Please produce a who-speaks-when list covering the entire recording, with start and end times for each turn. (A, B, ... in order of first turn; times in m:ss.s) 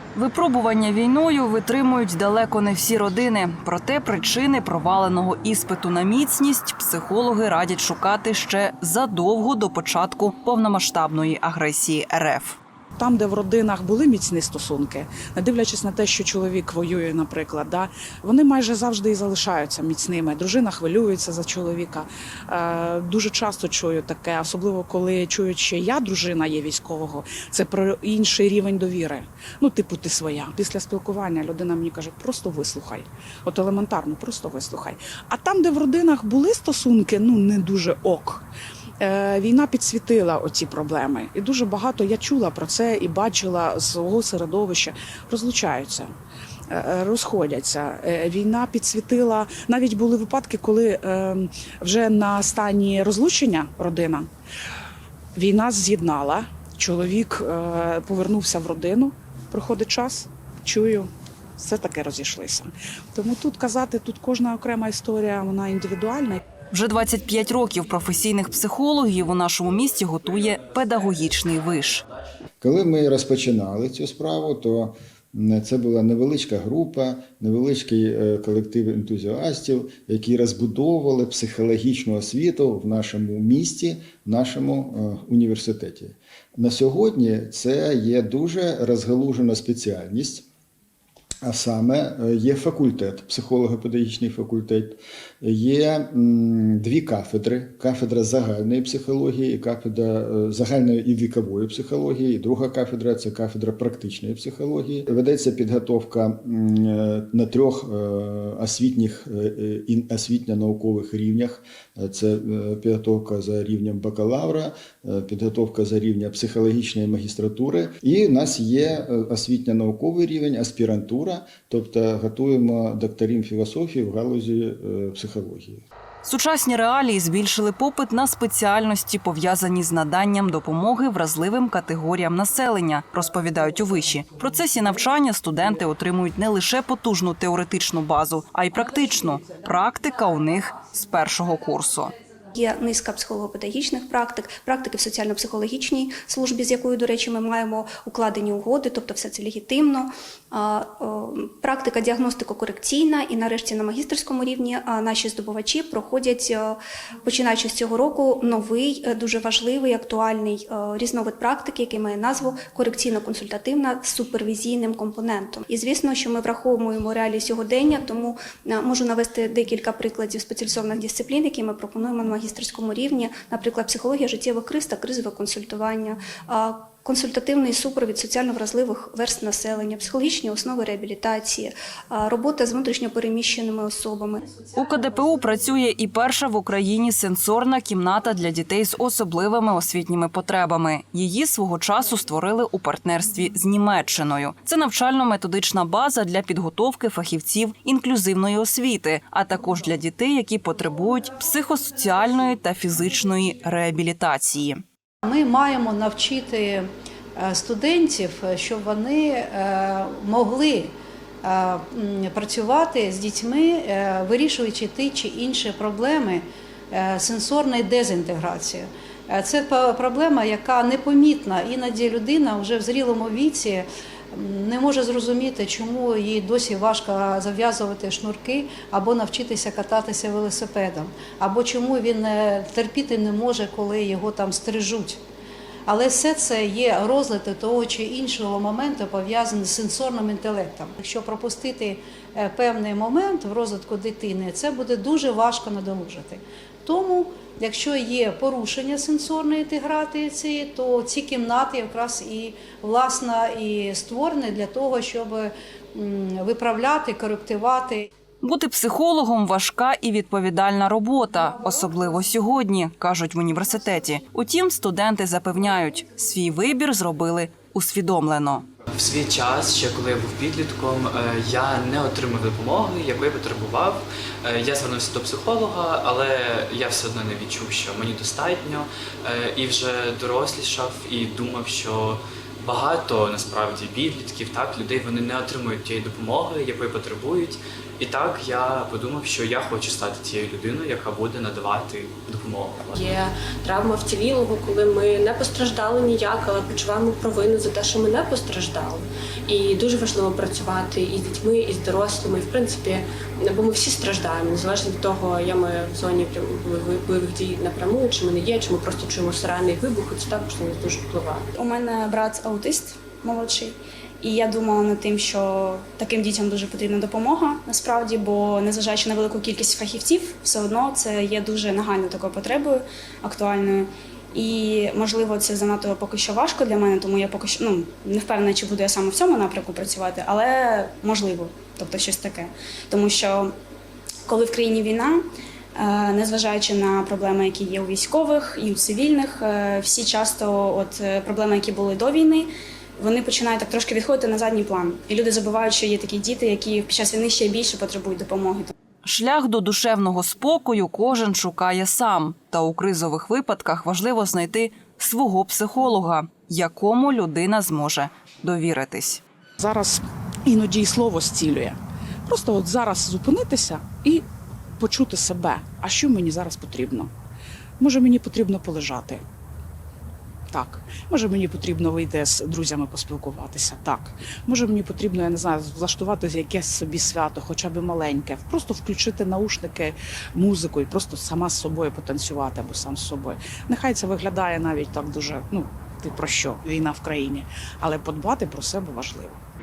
0:00.2-0:12.6 A
0:13.0-0:38.5 B
0:39.0-0:46.1 B
0:46.7-0:54.3 B
0:55.4-1:06.4 B
1:06.7-1:12.0 A
1:12.6-1:30.4 C
1:31.4-2:05.8 C
2:06.2-2:22.1 A
2:22.6-3:04.4 D
3:04.8-3:24.8 A
3:25.2-3:55.2 E
3:55.9-4:18.1 E
4:18.4-4:28.7 A
4:29.0-4:53.0 F
4:53.0-5:11.5 G
5:11.6-5:33.6 H
5:34.3-5:35.2 H
5:35.8-5:48.7 H
5:49.0-5:59.2 A
5:59.6-6:04.2 B
6:04.8-6:07.1 B
6:07.8-6:09.2 B
6:10.5-6:29.4 B